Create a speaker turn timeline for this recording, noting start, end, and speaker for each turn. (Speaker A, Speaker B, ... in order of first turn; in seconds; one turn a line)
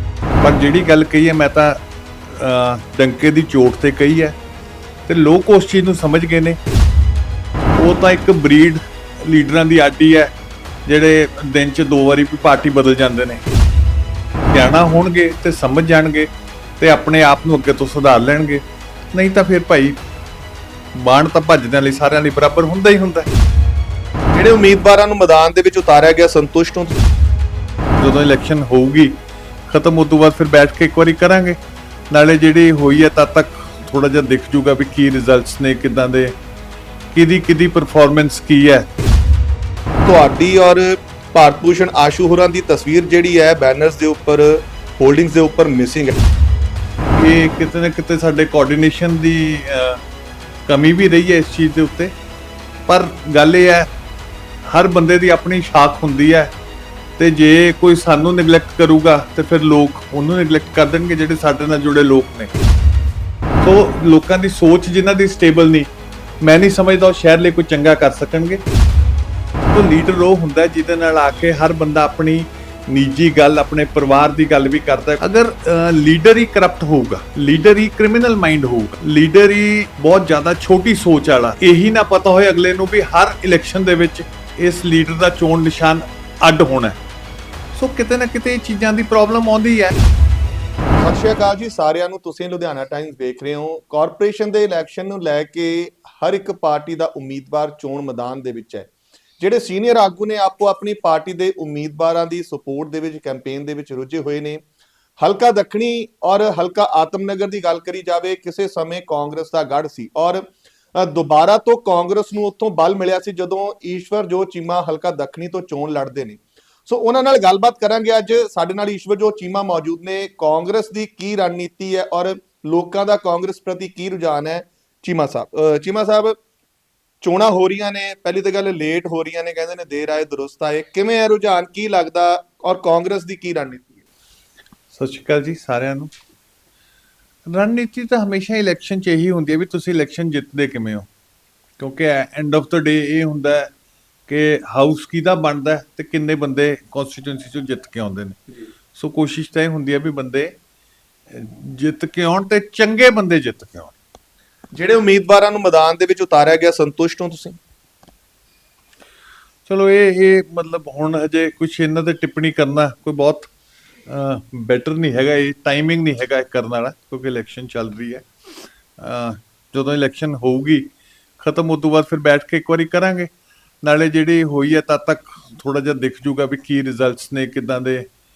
Speaker A: 0.4-1.8
Speaker A: 2.3-4.4
Speaker A: 5.1-6.6
Speaker A: 7.8-10.3
Speaker A: 10.9-13.4
Speaker A: 14.5-16.3
Speaker A: 16.8-20.0
Speaker A: 20.9-23.3
Speaker B: 24.3-27.0
Speaker A: 28.0-29.1
Speaker A: 29.7-31.6
Speaker A: 32.1-36.3
Speaker A: 37.1-38.9
Speaker B: 40.0-46.1
Speaker A: 47.2-50.0
Speaker A: 50.7-52.1
Speaker A: 52.9-53.9
Speaker A: 54.6-56.5
Speaker A: 57.2-62.5
Speaker A: 63.6-65.9
Speaker A: 66.4-68.6
Speaker A: 69.6-87.0
Speaker A: 87.8-89.9
Speaker B: 91.0-104.6
Speaker B: 105.2-126.4
Speaker B: 127.2-134.0
Speaker A: 134.9-136.1
Speaker A: 137.5-141.1
Speaker A: 141.8-143.7
Speaker A: 144.3-148.4
Speaker A: 148.9-150.6
Speaker A: 151.3-153.9
Speaker B: 154.7-157.6
Speaker A: 159.7-163.5
Speaker A: 164.1-168.3
Speaker A: 169.0-173.3
Speaker A: 173.8-178.1